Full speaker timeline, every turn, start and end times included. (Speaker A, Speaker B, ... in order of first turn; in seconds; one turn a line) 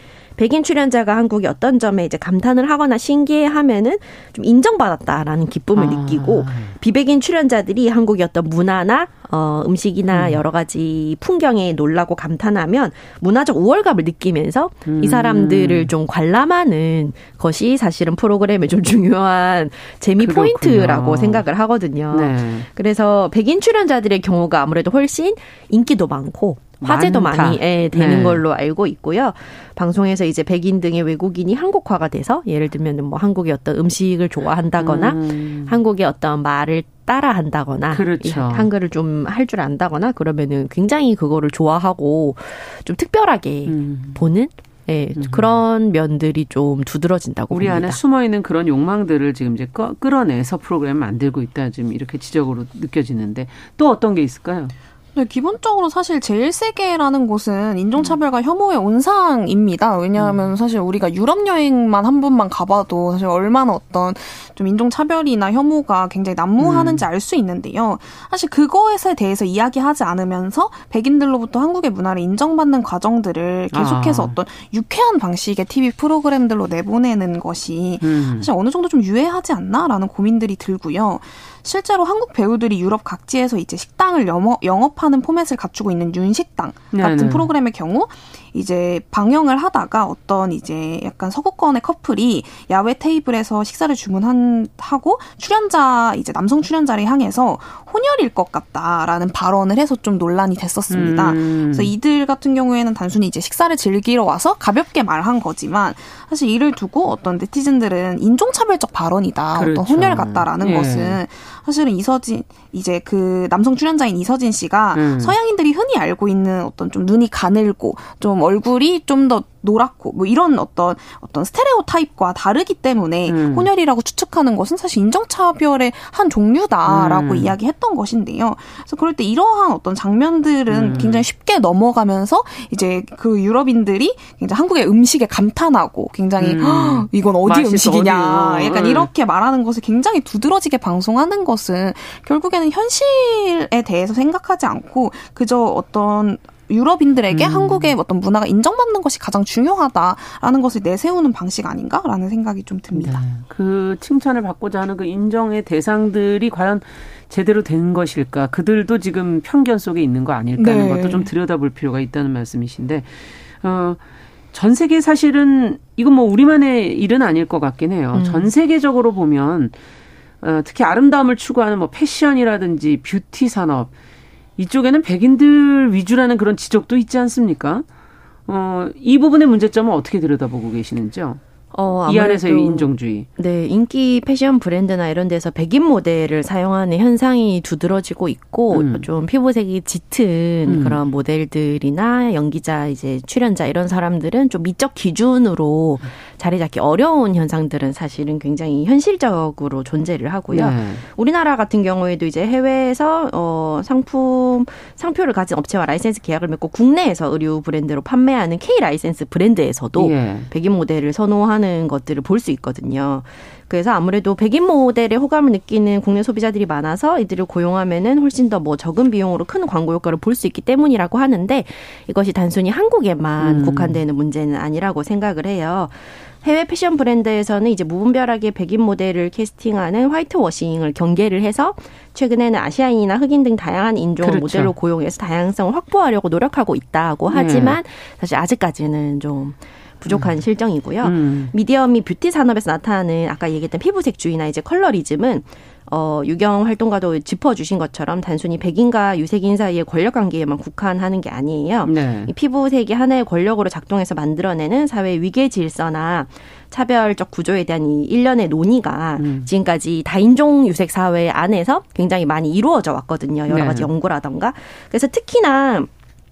Speaker A: 0.4-48.0
Speaker B: 5.7-6.7
Speaker B: 10.1-10.4
Speaker B: 14.9-15.9
Speaker B: 20.2-21.5
Speaker B: 22.1-22.7
Speaker B: 26.8-28.4
Speaker B: 34.8-35.8
Speaker B: 37.9-38.7
Speaker B: 43.7-44.2
Speaker B: 45.2-45.6
Speaker B: 47.5-54.7
Speaker C: 55.1-153.2
Speaker B: 60.2-60.5
Speaker B: 66.6-67.0
Speaker B: 73.7-74.4
Speaker B: 78.0-78.5
Speaker B: 86.9-87.5
Speaker B: 100.9-101.9
Speaker B: 109.5-111.2
Speaker B: 114.9-115.4
Speaker B: 123.3-123.7
Speaker B: 126.9-127.5
Speaker B: 130.7-131.2
Speaker B: 136.4-139.1
Speaker B: 147.3-148.0
Speaker B: 152.9-164.0
Speaker C: 160.6-161.3
Speaker B: 164.5-169.8
Speaker A: 168.1-168.5
Speaker B: 170.4-173.9
Speaker B: 174.6-177.9
Speaker B: 178.5-181.4
Speaker A: 181.7-265.9
Speaker B: 182.1-183.3
Speaker B: 188.7-189.1
Speaker B: 190.7-191.0
Speaker B: 200.5-201.0
Speaker B: 210.0-210.5
Speaker B: 223.4-224.0
Speaker B: 234.2-234.7
Speaker B: 237.3-237.8
Speaker B: 240.1-240.4
Speaker B: 241.0-241.5
Speaker B: 251.8-252.3
Speaker B: 259.2-259.5
Speaker B: 263.5-263.9